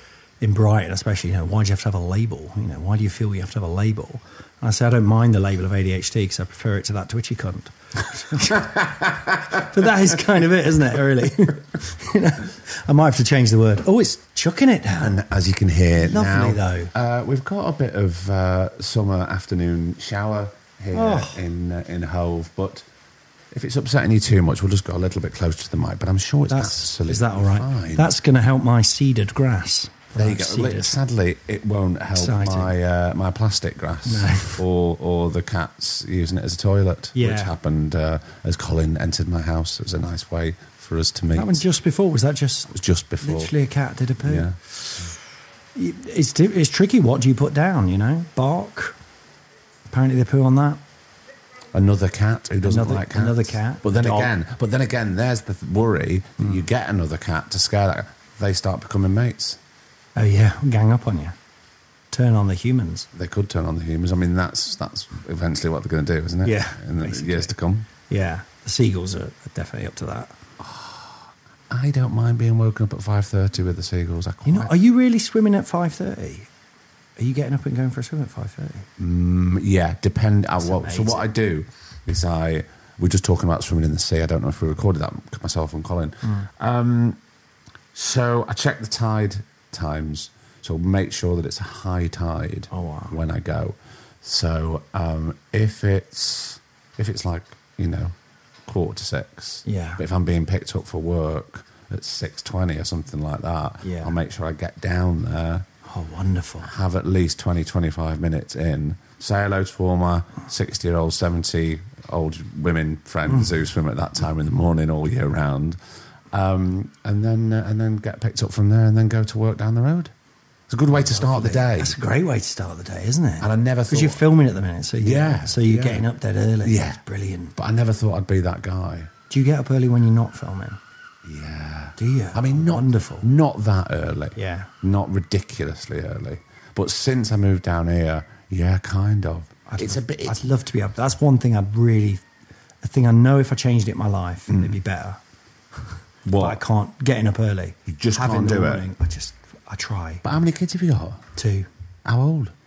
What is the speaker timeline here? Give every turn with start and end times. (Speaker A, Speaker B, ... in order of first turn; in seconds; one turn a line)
Speaker A: 0.4-8.9
Speaker B: 8.5-10.1
Speaker A: 9.5-15.2
Speaker B: 15.0-22.9
Speaker A: 16.0-16.9
Speaker A: 20.9-21.4
Speaker B: 23.5-28.1
Speaker A: 26.5-31.0
Speaker B: 30.1-41.6
Speaker A: 32.1-32.7
Speaker A: 34.1-34.6
Speaker A: 37.1-37.5
Speaker A: 41.3-45.0
Speaker B: 42.7-43.5
Speaker B: 44.2-44.6
Speaker A: 45.8-49.0
Speaker A: 49.9-50.8
Speaker B: 51.7-59.6
Speaker A: 52.7-54.3
Speaker A: 60.2-61.4
Speaker A: 62.1-63.1
Speaker B: 63.1-67.9
Speaker A: 66.4-67.5
Speaker A: 68.1-70.3
Speaker B: 70.6-74.7
Speaker A: 74.5-76.5
Speaker A: 77.2-78.9
Speaker B: 79.0-87.2
Speaker A: 80.6-81.3
Speaker A: 86.2-86.5
Speaker B: 87.9-98.1
Speaker A: 92.7-93.2
Speaker B: 98.7-105.7
Speaker A: 99.7-100.0
Speaker A: 103.8-104.2
Speaker A: 105.8-106.7
Speaker B: 106.6-115.8
Speaker B: 116.3-120.1
Speaker B: 120.7-122.0
Speaker A: 120.9-127.6
Speaker B: 123.4-124.3
Speaker B: 125.0-126.1
Speaker B: 126.6-127.0
Speaker B: 127.6-129.1
Speaker A: 129.3-130.8
Speaker B: 131.2-140.4
Speaker A: 132.0-133.3
Speaker A: 134.4-134.7
Speaker A: 139.7-142.2
Speaker A: 142.8-145.2
Speaker B: 144.5-144.8
Speaker A: 145.8-150.2
Speaker B: 146.2-146.6
Speaker B: 147.9-148.9
Speaker B: 150.2-151.3
Speaker A: 151.4-151.7
Speaker B: 152.1-152.5